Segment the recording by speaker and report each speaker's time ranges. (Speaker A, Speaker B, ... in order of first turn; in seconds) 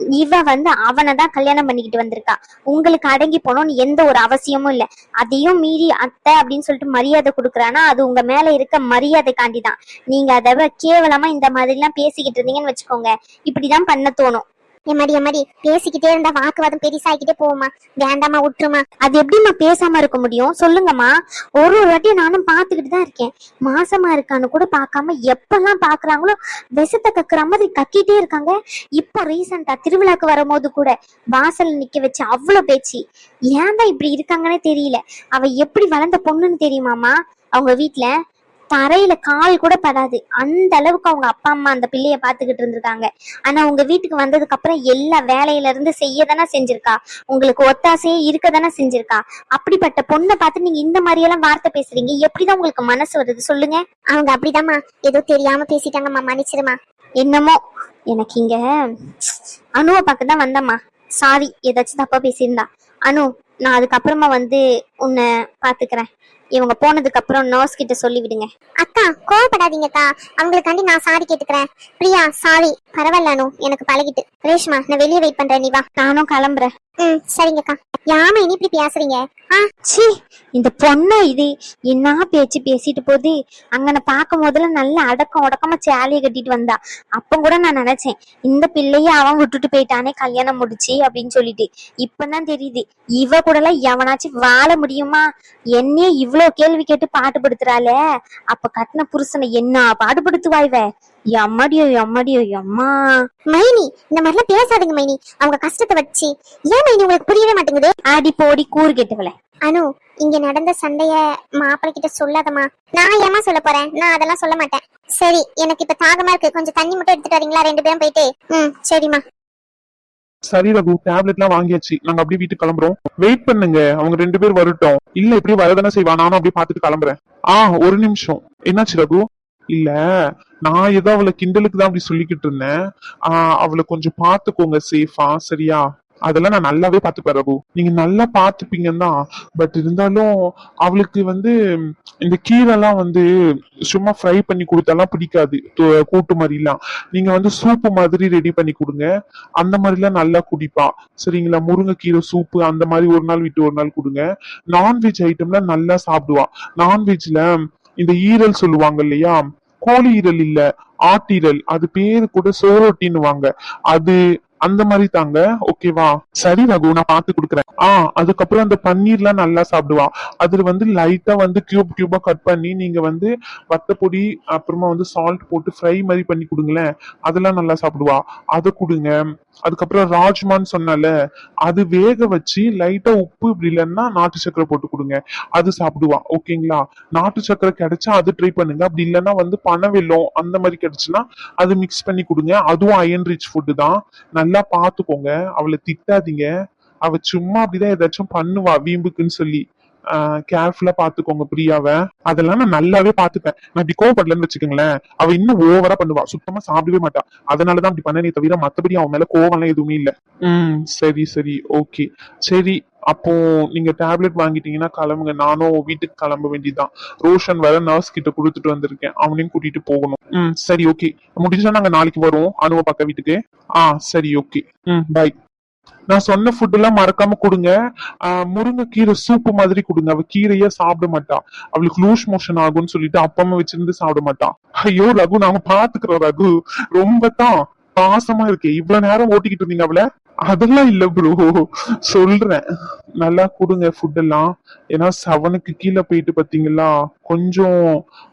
Speaker A: 0.2-14.4, 19.1-33.0, 33.5-38.1, 38.7-53.8, 57.2-57.6, 58.1-58.6, 59.8-68.5, 76.0-76.7, 79.9-95.2, 95.8-97.9, 98.5-102.9, 108.1-109.3
Speaker B: 14.9-18.8, 54.1-56.8, 68.8-75.8, 77.0-79.7, 103.5-107.9, 109.7-119.2
Speaker C: 120.5-129.2, 130.7-132.7, 133.3-140.3, 140.8-141.5, 142.2-143.2, 143.9-149.1, 149.6-154.2, 154.7-157.4, 158.0-179.1, 179.7-181.1, 181.7-196.5, 197.1-199.6, 200.5-225.3, 226.1-227.7, 228.3-242.6, 243.2-247.7